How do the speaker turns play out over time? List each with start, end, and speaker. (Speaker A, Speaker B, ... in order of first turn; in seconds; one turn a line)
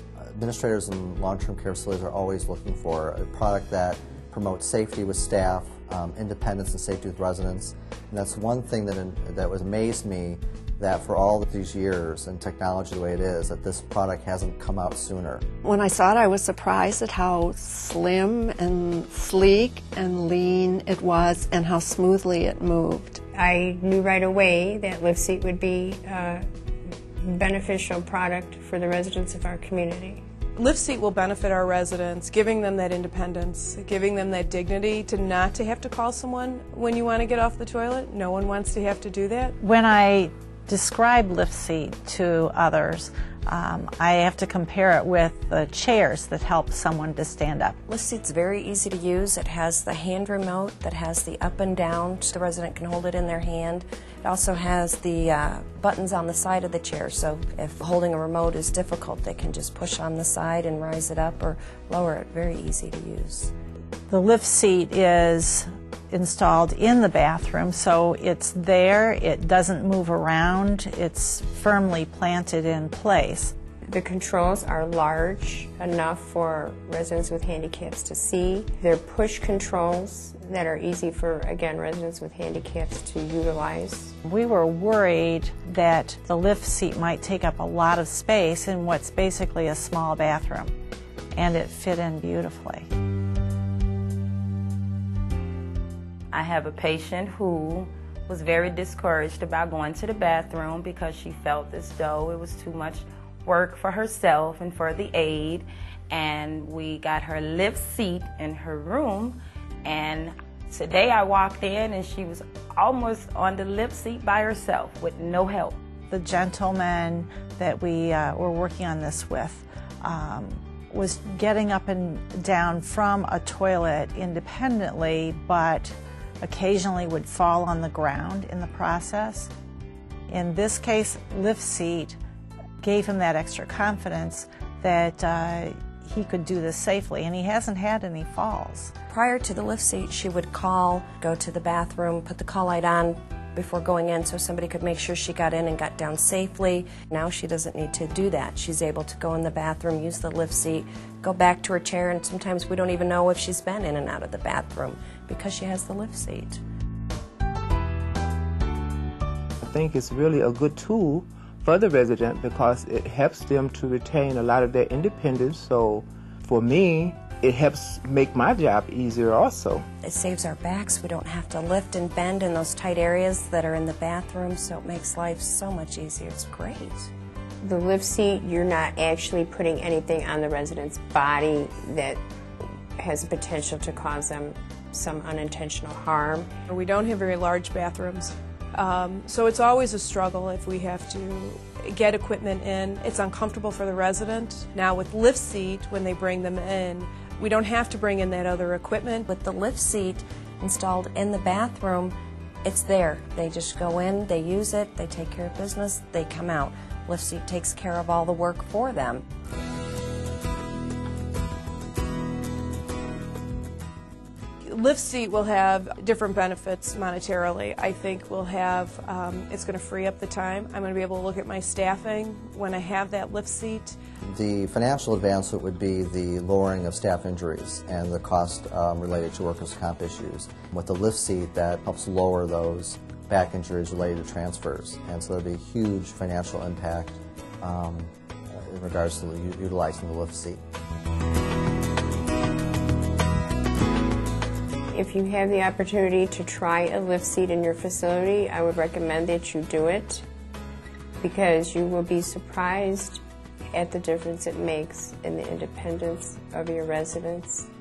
Speaker A: 0.2-15.4
Speaker B: 15.6-23.1
Speaker C: 23.3-26.4
Speaker C: 27.2-30.2
Speaker D: 30.6-39.5
Speaker E: 39.6-47.8
Speaker F: 47.9-63.5
Speaker E: 64.1-73.5
Speaker C: 73.9-84.1
Speaker E: 84.2-90.7
Speaker E: 91.3-92.9
Speaker G: 96.3-115.8
Speaker E: 116.1-129.5
Speaker E: 130.3-132.2
Speaker E: 132.8-138.9
Speaker F: 139.1-156.6
Speaker H: 159.6-169.9
Speaker F: 170.0-177.1
Speaker C: 177.6-182.2
Speaker C: 183.0-186.5
Speaker D: 186.7-199.3
Speaker F: 199.3-209.2
Speaker D: 214.6-223.9
Speaker A: 224.3-240.6
Speaker C: 244.9-250.2
Speaker C: 251.2-253.2
Speaker C: 253.7-257.7